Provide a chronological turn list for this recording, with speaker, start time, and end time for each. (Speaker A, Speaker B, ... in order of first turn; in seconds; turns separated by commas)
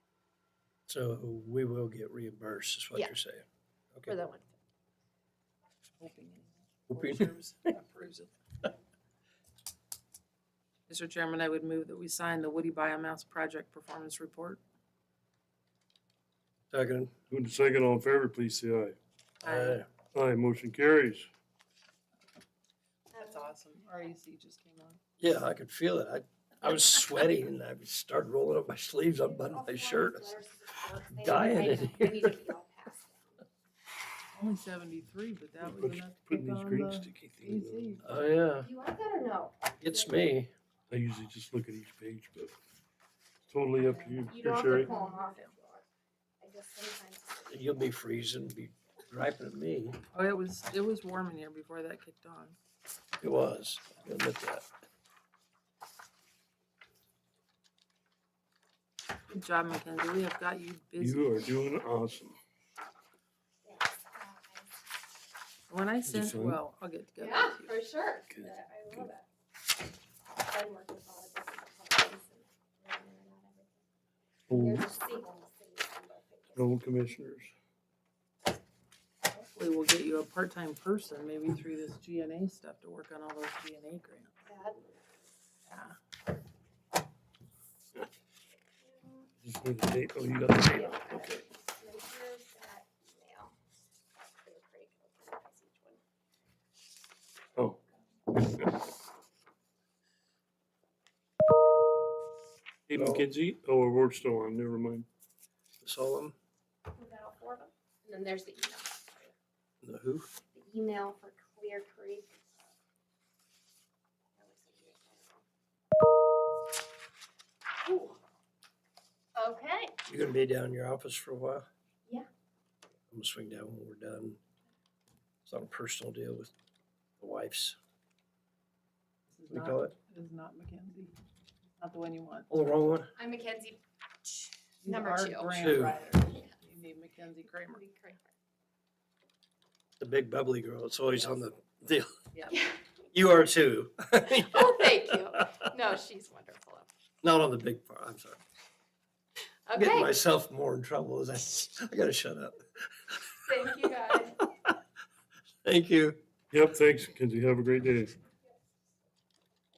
Speaker A: 0.9-4.1, Speaker B: 4.0-4.5, Speaker C: 6.0-8.3, Speaker A: 6.9-7.2, Speaker C: 10.9-14.6, Speaker A: 16.7-17.1, Speaker D: 17.3-19.0, Speaker C: 19.4-19.8, Speaker A: 19.4-19.9, Speaker D: 20.1-21.3, Speaker B: 23.1-23.4, Speaker C: 23.2-25.0, Speaker A: 25.2-30.4, Speaker B: 29.3-33.4, Speaker A: 31.1-32.3, Speaker C: 34.3-38.2, Speaker D: 35.6-38.0, Speaker A: 38.0-38.7, Speaker B: 38.6-40.2, Speaker A: 39.8-40.5, Speaker D: 40.9-42.5, Speaker D: 43.5-44.9, Speaker C: 43.8-45.5, Speaker B: 44.3-45.8, Speaker B: 46.4-47.9, Speaker A: 47.5-50.0, Speaker C: 50.1-52.5, Speaker A: 53.2-54.7, Speaker C: 59.3-61.3, Speaker D: 61.0-62.4, Speaker B: 63.6-64.7, Speaker C: 65.7-67.8, Speaker D: 66.0-66.6, Speaker B: 67.2-69.2, Speaker B: 70.3-73.8, Speaker D: 74.5-74.9, Speaker B: 74.5-76.7, Speaker D: 76.5-77.5, Speaker C: 79.5-84.3, Speaker B: 84.4-84.8, Speaker C: 85.7-86.0, Speaker B: 88.8-89.2, Speaker D: 89.4-91.4, Speaker B: 90.7-93.5, Speaker B: 94.4-96.0, Speaker D: 98.3-98.8, Speaker D: 102.9-105.1, Speaker A: 102.9-103.2, Speaker A: 105.8-106.3, Speaker B: 106.9-109.3, Speaker A: 109.8-110.3, Speaker B: 110.5-112.4, Speaker B: 114.3-115.4, Speaker B: 117.8-118.2, Speaker B: 119.3-119.9, Speaker A: 120.1-121.7, Speaker A: 123.1-124.4, Speaker A: 125.5-126.5, Speaker A: 127.2-127.8, Speaker C: 129.3-131.1, Speaker A: 129.5-129.9, Speaker C: 131.8-132.5, Speaker A: 132.5-133.1, Speaker B: 133.2-135.7, Speaker C: 134.8-137.8, Speaker A: 135.5-136.0, Speaker B: 137.7-138.3, Speaker A: 140.0-142.1, Speaker C: 142.3-142.6, Speaker B: 142.5-142.8, Speaker A: 143.1-144.9, Speaker B: 144.2-146.9, Speaker A: 147.2-148.4, Speaker B: 149.7-150.1, Speaker A: 149.8-153.2, Speaker B: 153.4-154.4, Speaker A: 155.6-156.2, Speaker D: 156.5-158.2